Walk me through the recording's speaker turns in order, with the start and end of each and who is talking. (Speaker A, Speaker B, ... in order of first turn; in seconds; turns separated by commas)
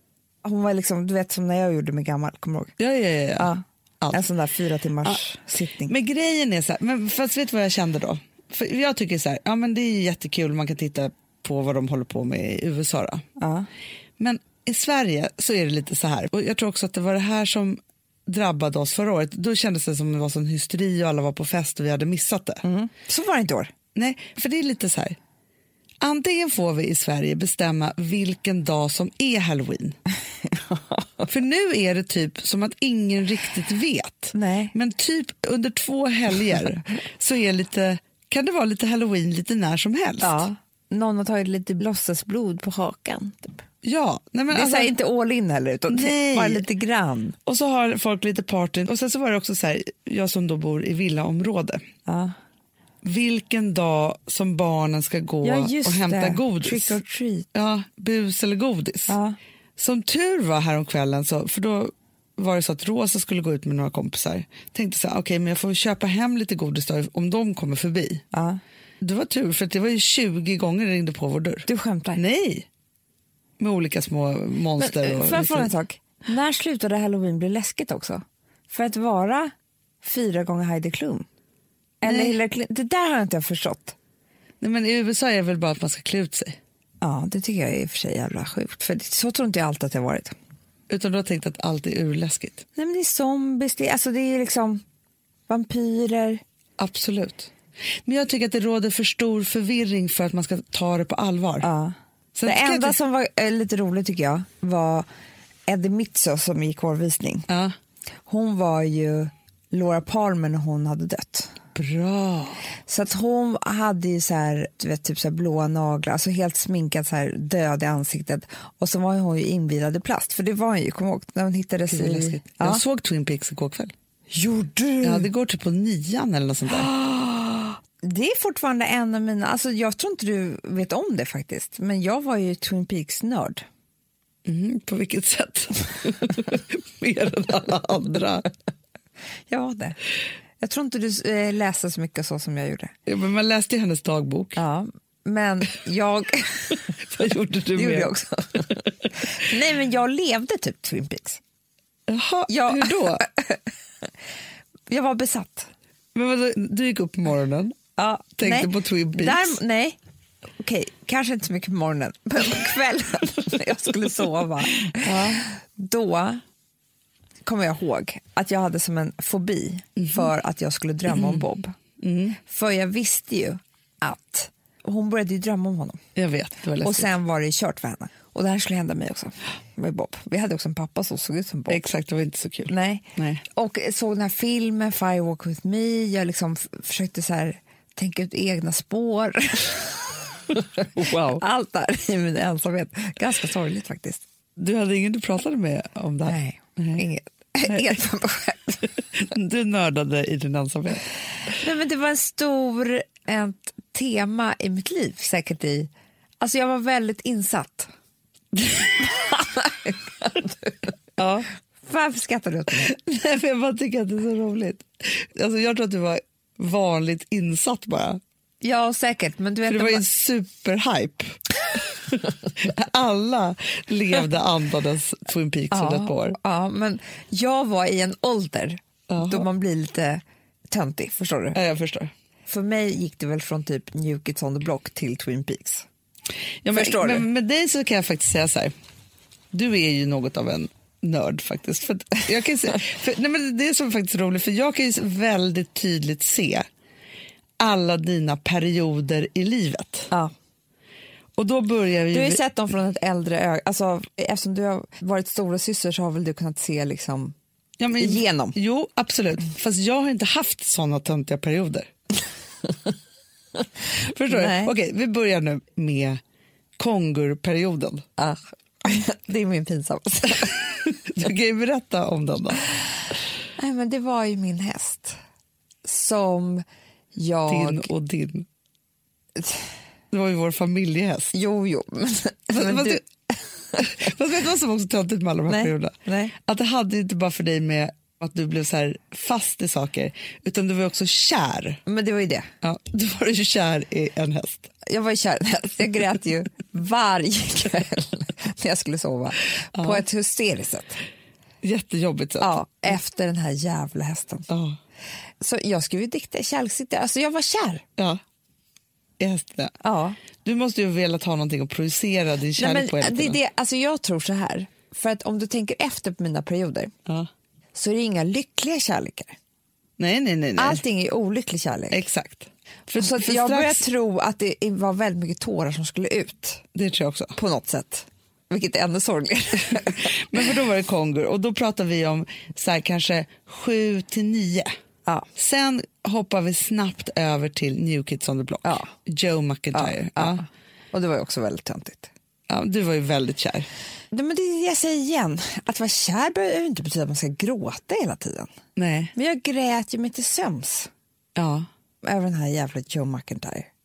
Speaker A: 0.4-2.7, Speaker B: 2.8-4.2, Speaker A: 3.4-5.9, Speaker B: 5.9-13.2, Speaker A: 13.4-13.7, Speaker B: 14.2-22.6, Speaker A: 22.6-23.7, Speaker B: 23.9-25.2, Speaker B: 26.0-30.0, Speaker A: 30.5-31.2, Speaker B: 31.3-40.5, Speaker A: 34.3-34.7, Speaker A: 40.2-43.6, Speaker B: 43.8-44.9, Speaker A: 44.5-47.4, Speaker B: 45.9-46.6, Speaker B: 47.5-51.8, Speaker A: 52.0-52.3, Speaker B: 53.0-57.0, Speaker A: 55.4-57.5, Speaker B: 57.5-59.2, Speaker A: 59.1-59.4, Speaker B: 59.8-68.2, Speaker A: 68.3-68.6, Speaker B: 69.0-72.7, Speaker A: 71.7-72.2, Speaker B: 73.6-75.7, Speaker A: 74.8-81.2, Speaker A: 82.0-84.0, Speaker B: 82.0-82.3, Speaker B: 84.6-86.6, Speaker A: 87.0-90.3, Speaker B: 90.9-92.6, Speaker A: 92.8-94.8, Speaker A: 95.5-96.4, Speaker B: 96.8-97.5, Speaker B: 98.0-101.7, Speaker A: 101.6-101.9, Speaker B: 102.3-103.0, Speaker A: 102.5-105.1, Speaker A: 105.7-107.5, Speaker B: 107.5-107.7, Speaker A: 108.3-111.5, Speaker B: 111.7-112.6, Speaker A: 112.9-122.8, Speaker B: 121.9-123.9, Speaker A: 124.3-125.3, Speaker B: 125.0-126.9, Speaker A: 126.7-133.6, Speaker B: 134.4-138.5, Speaker A: 139.5-140.0, Speaker A: 140.6-142.9, Speaker B: 143.1-144.6, Speaker A: 144.6-146.9, Speaker B: 147.0-148.7, Speaker A: 147.7-151.4, Speaker B: 152.1-153.3, Speaker A: 152.5-154.1, Speaker A: 154.9-155.7, Speaker B: 156.1-157.8, Speaker A: 158.0-160.0, Speaker B: 158.4-159.5, Speaker A: 160.6-166.4, Speaker B: 165.0-165.4, Speaker A: 167.4-171.8, Speaker B: 170.0-170.3, Speaker B: 171.1-171.4, Speaker B: 172.0-172.4, Speaker A: 172.4-176.0, Speaker B: 176.2-177.1, Speaker A: 176.8-181.9, Speaker B: 181.7-183.4, Speaker A: 182.7-194.2, Speaker B: 190.9-191.4, Speaker B: 194.6-197.0, Speaker A: 196.2-198.8, Speaker B: 199.1-201.1, Speaker A: 201.6-207.9, Speaker A: 209.0-210.9, Speaker B: 211.2-211.5, Speaker A: 211.8-212.9, Speaker B: 212.8-218.2, Speaker A: 218.6-220.0, Speaker B: 219.6-221.4, Speaker B: 222.1-226.4, Speaker A: 225.7-231.6, Speaker B: 229.1-229.5, Speaker B: 231.5-232.1, Speaker A: 232.5-235.8, Speaker B: 236.6-238.7, Speaker A: 236.7-237.2, Speaker B: 239.5-246.7, Speaker B: 247.6-250.1, Speaker B: 251.4-252.4, Speaker A: 252.1-257.3, Speaker B: 257.8-261.9, Speaker A: 258.0-258.6, Speaker B: 263.9-266.2, Speaker A: 264.3-264.7, Speaker B: 266.8-268.1, Speaker A: 268.2-270.6, Speaker B: 270.6-272.7, Speaker A: 273.6-275.2, Speaker A: 275.8-277.9, Speaker B: 277.5-278.5, Speaker A: 279.4-279.6, Speaker B: 280.1-281.3, Speaker A: 281.3-284.1, Speaker B: 282.5-283.0, Speaker B: 283.8-291.8, Speaker A: 285.5-286.3, Speaker A: 291.9-292.5, Speaker B: 292.6-294.7, Speaker A: 294.8-301.0, Speaker B: 299.7-300.0, Speaker B: 301.6-302.6, Speaker A: 302.4-304.5, Speaker B: 304.5-304.8, Speaker A: 305.4-307.8, Speaker B: 309.2-309.8, Speaker A: 309.8-310.2, Speaker B: 310.4-313.4, Speaker A: 312.6-316.9, Speaker A: 317.7-319.4, Speaker B: 320.0-320.8, Speaker A: 320.6-322.0, Speaker B: 321.9-323.8, Speaker A: 323.0-326.6, Speaker B: 326.7-327.4, Speaker A: 327.4-330.4, Speaker B: 329.7-334.7, Speaker B: 335.3-340.4, Speaker A: 338.6-338.9, Speaker A: 339.7-342.1, Speaker B: 342.5-343.7, Speaker A: 344.1-348.5, Speaker B: 348.8-349.1, Speaker A: 349.1-350.9, Speaker B: 351.4-351.7, Speaker A: 352.0-353.7